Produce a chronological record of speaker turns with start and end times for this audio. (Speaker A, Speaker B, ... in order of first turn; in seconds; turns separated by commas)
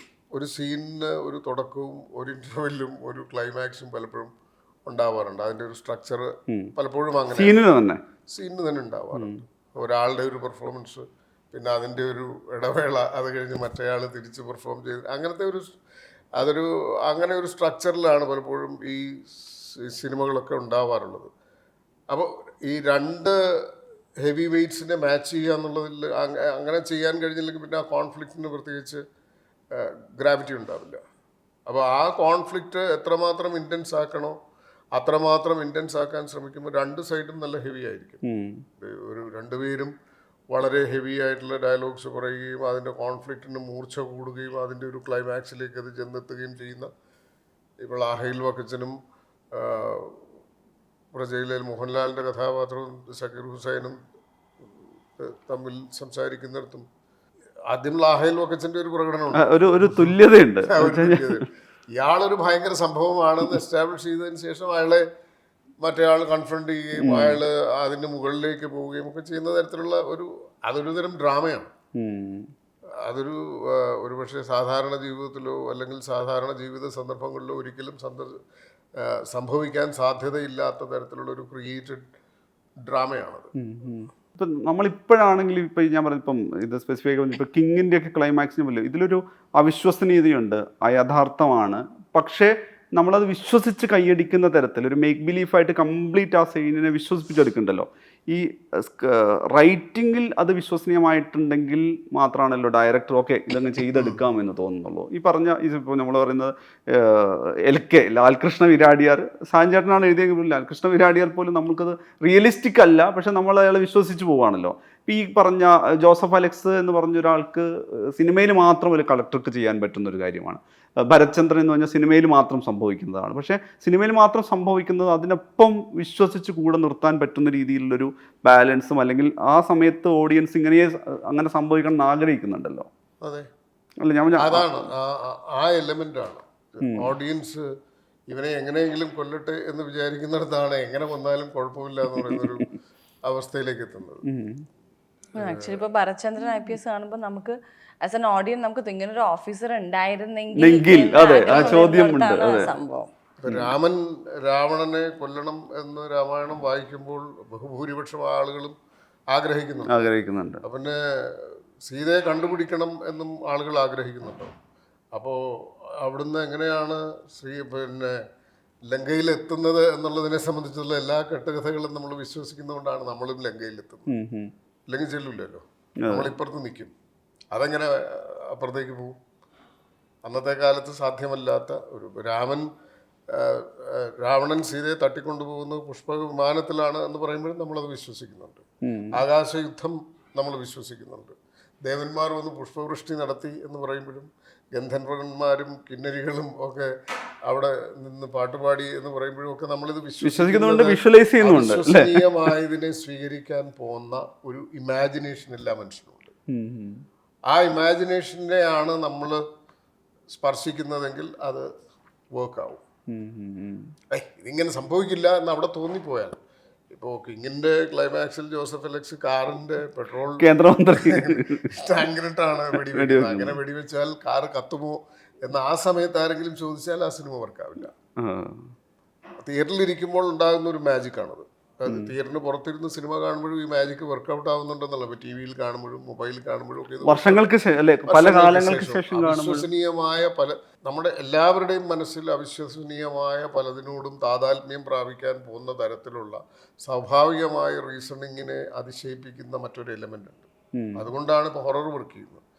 Speaker A: 0.3-4.3, Speaker A: 4.9-7.6, Speaker B: 7.3-8.0, Speaker A: 8.3-15.7, Speaker A: 16.4-21.3, Speaker A: 22.1-23.7, Speaker A: 24.2-29.0, Speaker A: 29.7-31.0, Speaker A: 31.7-34.4, Speaker A: 35.0-38.2, Speaker B: 38.2-38.6, Speaker A: 38.8-39.9, Speaker A: 40.5-46.9, Speaker A: 47.8-49.0, Speaker A: 49.5-50.2, Speaker A: 51.1-54.0, Speaker A: 55.2-56.9, Speaker A: 57.7-60.1, Speaker B: 59.3-61.4, Speaker A: 60.7-65.0, Speaker A: 65.8-71.7, Speaker B: 67.0-67.4, Speaker B: 72.0-72.5, Speaker A: 73.0-78.4, Speaker A: 79.0-82.1, Speaker A: 82.9-83.5, Speaker B: 83.6-132.9, Speaker A: 133.2-133.5, Speaker B: 134.0-134.8, Speaker A: 134.4-137.7, Speaker B: 136.8-137.1, Speaker A: 138.3-142.7, Speaker B: 142.3-142.5, Speaker A: 143.3-144.2, Speaker B: 144.3-144.6, Speaker C: 145.4-153.1, Speaker A: 145.4-145.8, Speaker B: 150.6-152.7, Speaker A: 151.5-151.9, Speaker A: 153.4-158.8, Speaker B: 153.5-153.7, Speaker A: 159.3-160.1, Speaker B: 159.9-160.6, Speaker A: 160.6-164.5, Speaker A: 166.0-168.2, Speaker A: 168.9-174.1, Speaker B: 174.1-174.5, Speaker A: 174.9-176.9, Speaker B: 176.1-176.3, Speaker A: 177.5-179.2, Speaker A: 180.2-182.7, Speaker A: 183.3-196.9, Speaker B: 188.9-189.2, Speaker A: 197.5-206.3, Speaker B: 200.2-202.2, Speaker B: 206.5-207.0, Speaker A: 207.5-209.4, Speaker A: 210.3-211.7, Speaker A: 212.3-212.8, Speaker B: 213.1-213.9, Speaker A: 214.1-216.4, Speaker A: 216.9-227.9, Speaker B: 220.4-221.7, Speaker B: 222.8-223.6, Speaker B: 228.2-228.7, Speaker A: 229.4-237.5, Speaker B: 237.0-239.7, Speaker A: 238.1-252.4, Speaker B: 250.8-251.1